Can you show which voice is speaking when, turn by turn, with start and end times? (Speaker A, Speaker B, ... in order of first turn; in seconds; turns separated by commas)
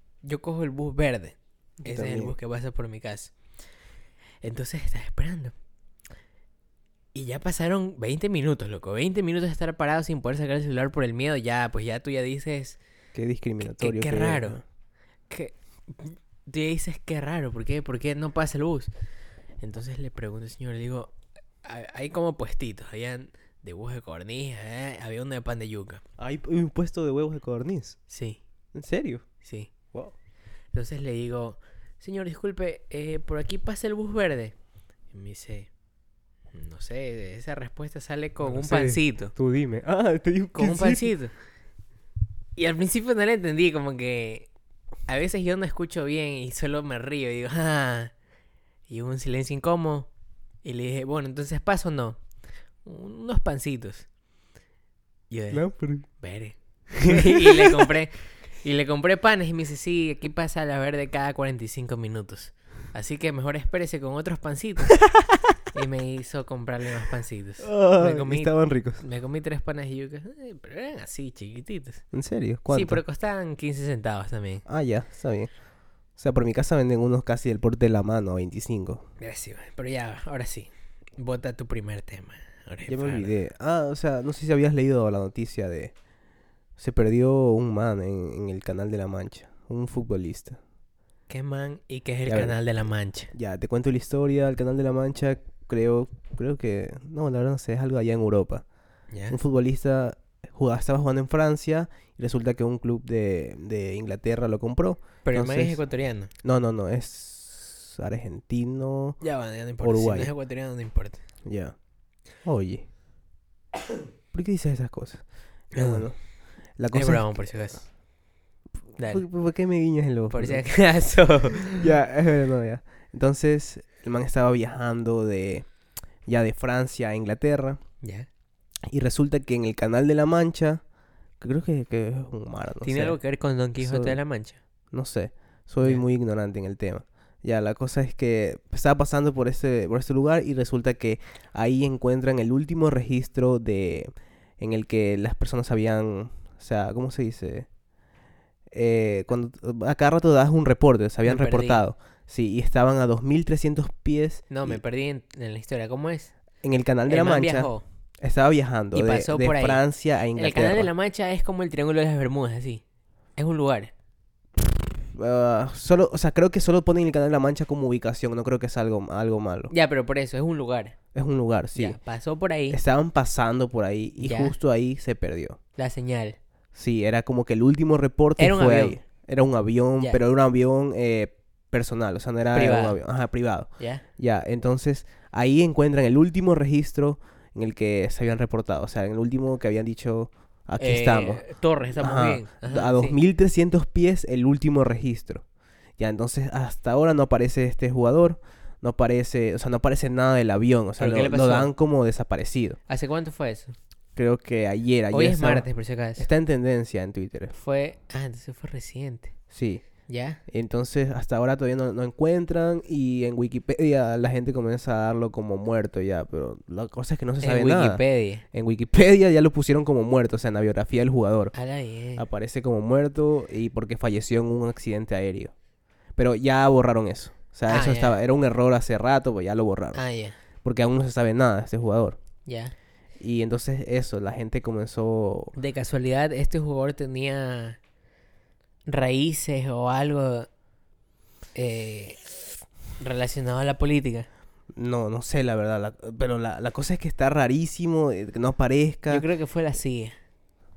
Speaker A: 0.2-3.3, Speaker B: 1.8-2.4, Speaker A: 4.4-5.5, Speaker A: 7.1-12.8, Speaker B: 13.1-14.6, Speaker A: 13.6-14.6, Speaker A: 15.3-18.9, Speaker A: 19.6-26.0, Speaker B: 26.2-28.0, Speaker A: 28.1-28.4, Speaker B: 28.7-29.2, Speaker A: 29.4-29.7, Speaker A: 30.7-34.5, Speaker A: 35.1-35.7, Speaker A: 36.5-39.3, Speaker B: 38.4-41.1, Speaker A: 40.5-41.3, Speaker A: 42.5-44.5, Speaker A: 45.1-48.1, Speaker A: 48.9-50.1, Speaker A: 50.6-52.2, Speaker A: 52.8-54.1, Speaker A: 55.3-65.0, Speaker B: 55.5-56.1, Speaker B: 57.1-57.9, Speaker B: 65.0-65.4, Speaker A: 65.7-72.0, Speaker B: 67.6-69.0, Speaker B: 72.1-73.0, Speaker A: 72.7-74.6, Speaker B: 74.7-75.5, Speaker B: 76.2-79.0, Speaker A: 79.2-83.3, Speaker B: 82.9-85.9, Speaker B: 86.8-90.6, Speaker A: 91.3-93.3, Speaker B: 92.2-92.6, Speaker B: 93.3-98.6, Speaker A: 99.1-99.4, Speaker B: 99.3-105.8, Speaker A: 105.2-106.3, Speaker B: 106.4-109.2, Speaker A: 109.2-111.2, Speaker B: 109.8-110.3, Speaker B: 111.5-111.7, Speaker B: 112.4-112.9, Speaker B: 114.3-116.2, Speaker A: 115.7-116.0, Speaker B: 116.8-117.8, Speaker A: 116.9-117.9, Speaker A: 119.0-119.2, Speaker B: 119.0-120.6, Speaker A: 120.3-121.9, Speaker B: 121.8-125.7, Speaker B: 126.3-127.8, Speaker A: 128.0-128.3, Speaker B: 128.9-130.8, Speaker B: 131.4-133.2, Speaker A: 132.8-134.6, Speaker B: 133.8-134.2, Speaker B: 134.9-147.7, Speaker B: 148.7-154.8, Speaker A: 151.2-151.8, Speaker A: 154.5-156.3, Speaker B: 156.6-160.9, Speaker A: 157.1-157.8, Speaker A: 158.9-159.8, Speaker A: 160.3-162.8, Speaker A: 163.3-163.9, Speaker B: 164.6-169.7, Speaker A: 169.7-170.9, Speaker B: 171.1-172.0, Speaker A: 171.7-172.8, Speaker B: 172.7-175.6, Speaker A: 174.2-174.5, Speaker A: 175.8-176.4, Speaker B: 176.7-191.4, Speaker A: 178.4-179.0, Speaker A: 182.5-183.0, Speaker A: 183.8-184.0, Speaker A: 190.8-193.2, Speaker B: 192.0-195.4, Speaker B: 196.0-202.8, Speaker A: 201.0-201.7, Speaker A: 202.9-203.7, Speaker B: 204.2-207.5, Speaker A: 205.1-206.3, Speaker A: 207.5-209.3, Speaker B: 209.5-209.8, Speaker A: 210.1-210.4, Speaker B: 210.5-218.0, Speaker A: 217.4-218.4, Speaker B: 218.5-221.5, Speaker A: 221.5-222.2, Speaker B: 222.2-225.5, Speaker B: 226.2-230.0, Speaker A: 227.7-228.2, Speaker A: 229.9-230.4, Speaker B: 230.6-232.2, Speaker A: 232.4-232.7, Speaker B: 233.2-235.5, Speaker A: 235.6-237.8, Speaker A: 238.9-240.5, Speaker A: 241.5-242.4, Speaker A: 243.0-244.3, Speaker B: 244.7-249.2, Speaker A: 249.1-250.2